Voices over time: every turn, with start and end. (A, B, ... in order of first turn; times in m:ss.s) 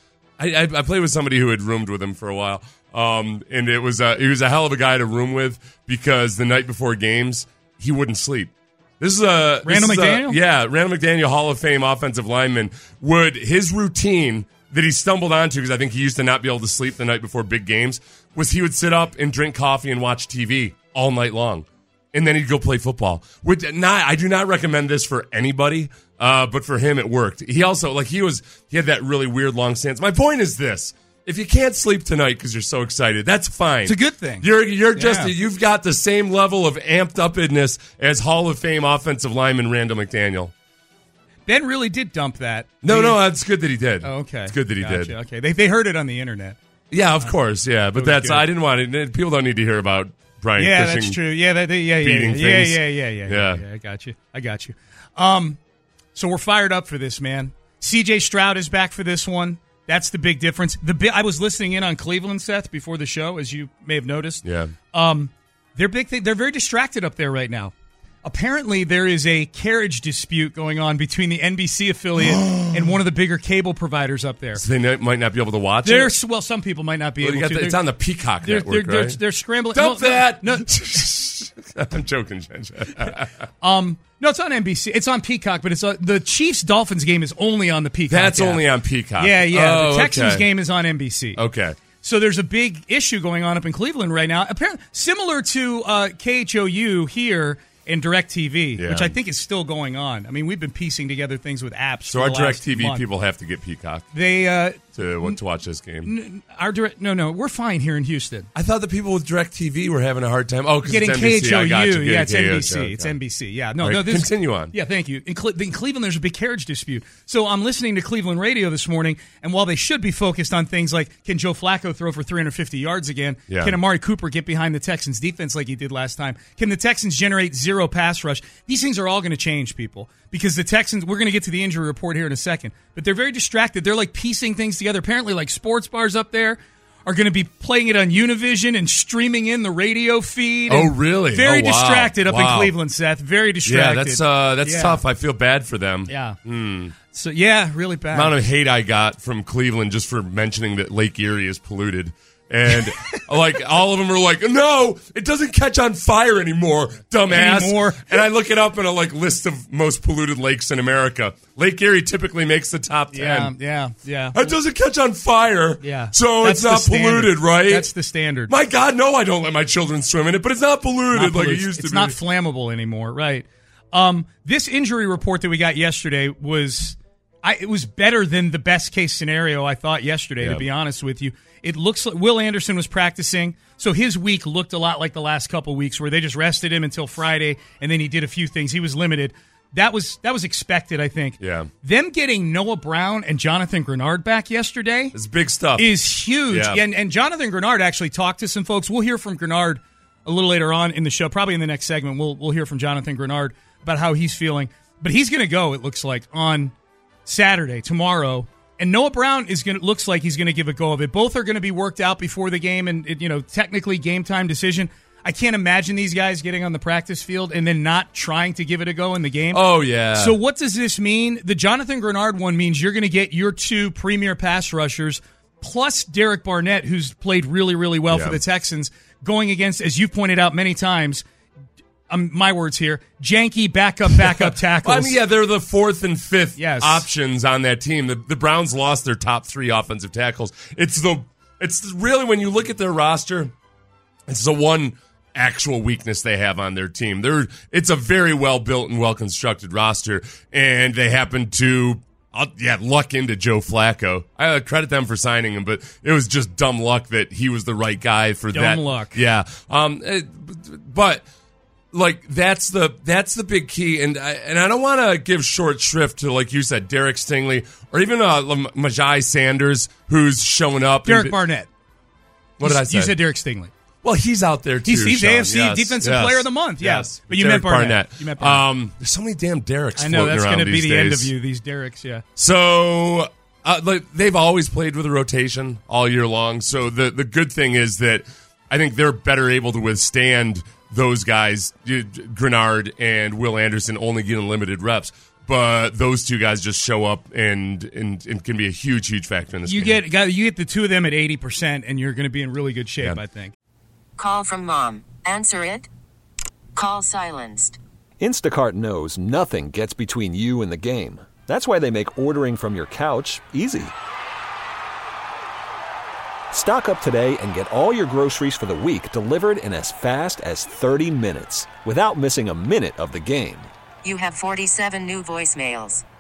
0:00.4-0:40.5 A
0:09.6-0:10.4 B
0:33.8-0:35.3 B
0:41.5-0:43.2 B
0:42.8-0:45.1 A
0:44.0-0:46.6 B
0:46.9-0:51.2 A
0:47.9-0:48.5 B
0:50.6-0:55.6 B
0:52.0-0:53.6 A
0:56.1-1:07.7 B
1:04.4-1:04.8 A
1:08.2-1:14.6 B
1:12.2-1:13.0 A
1:14.6-1:16.1 A
1:15.8-1:17.8 B
1:17.2-1:19.2 A
1:18.4-1:20.8 B
1:19.7-1:23.3 A
1:23.6-1:28.6 B
1:28.1-1:30.5 A
1:29.2-1:31.4 B
1:31.4-1:31.8 A
1:32.0-1:43.0 B
1:38.8-1:39.2 A
1:42.1-1:44.1 A
1:44.1-1:45.4 B
1:45.0-1:46.1 A
1:46.0-1:48.5 B
1:48.5-1:53.2 A
1:50.8-2:25.0 B
1:53.8-1:54.7 A
2:03.5-2:03.8 A
2:20.7-2:22.7 A
2:23.6-2:26.9 A
2:26.1-2:26.4 B
2:27.1-2:28.4 B
2:28.1-2:43.6 A
2:32.7-2:33.2 B
2:37.2-2:38.2 B
2:43.1-2:44.5 B
2:44.3-2:47.9 A
2:45.8-2:48.5 B
2:48.5-2:52.2 A
2:51.1-3:15.2 B
3:00.4-3:00.7 A
3:11.4-3:11.7 A
3:15.1-3:16.8 A
3:15.8-3:26.7 B
3:27.2-3:51.2 B
3:39.5-3:40.4 A
3:48.1-3:48.4 A
3:52.1-3:55.2 B
3:54.2-4:03.5 A
3:56.5-3:57.1 B
4:04.3-4:21.2 A
4:18.5-4:19.2 B
4:21.9-4:31.4 A
4:31.0-4:31.7 B
4:32.6-4:33.2 A
4:32.6-4:33.7 B
4:34.0-4:41.3 A
4:34.8-4:38.7 B
4:40.0-4:42.2 B
4:42.4-5:00.0 A
4:59.6-5:03.5 B
5:04.2-5:05.9 C
5:06.7-5:07.8 C
5:08.2-5:13.9 D
5:16.5-5:23.7 D
5:24.0-5:26.0 C